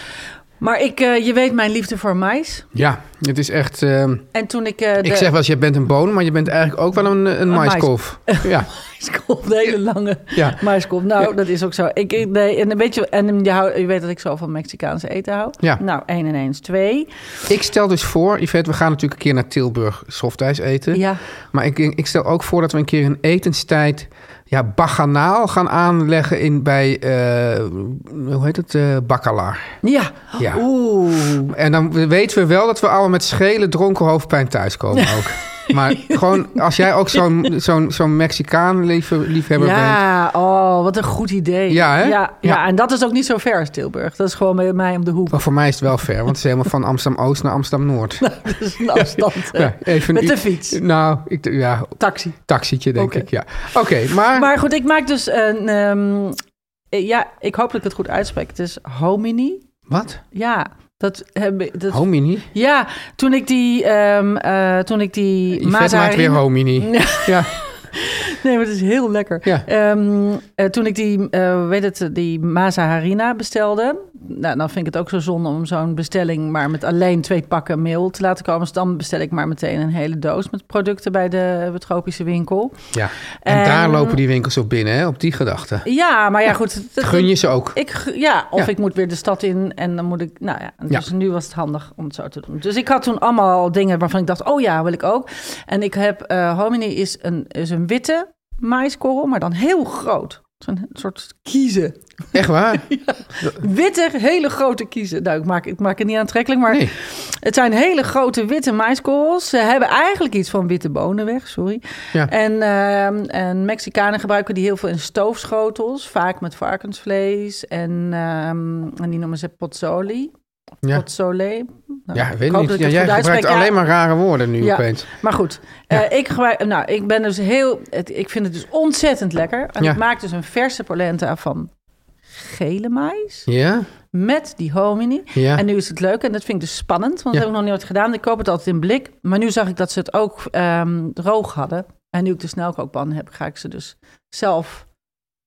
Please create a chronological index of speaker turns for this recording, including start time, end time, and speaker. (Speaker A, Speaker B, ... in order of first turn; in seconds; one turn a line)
Speaker A: 0.6-2.7
Speaker B: 2.8-4.3
Speaker A: 4.3-5.3
Speaker B: 5.0-8.7
Speaker A: 7.5-17.1
Speaker B: 10.3-10.6
Speaker B: 17.5-29.8
Speaker A: 20.9-21.2
Speaker A: 29.8-31.5
Speaker B: 30.4-40.0
Speaker A: 35.0-37.3
Speaker A: 39.6-45.4
Speaker B: 41.7-42.6
Speaker B: 45.3-48.3
Speaker A: 48.2-50.8
Speaker B: 48.8-54.5
Speaker A: 52.0-52.4
Speaker A: 53.0-53.3
Speaker A: 54.3-56.4
Speaker A: 56.9-59.7
Speaker B: 59.9-60.2
Speaker A: 60.3-82.8
Speaker B: 61.9-62.5
Speaker B: 65.5-67.5
Speaker B: 82.9-85.9
Speaker A: 83.4-84.2
Speaker A: 85.8-120.3
Speaker B: 87.0-87.8
Speaker B: 102.3-102.9
Speaker B: 106.7-106.9
Speaker A: 120.9-123.8
Speaker B: 122.1-125.1
Speaker A: 124.6-131.7
Speaker A: 132.3-133.5
Speaker B: 133.5-133.9
Speaker A: 134.1-144.9
Speaker B: 135.3-135.6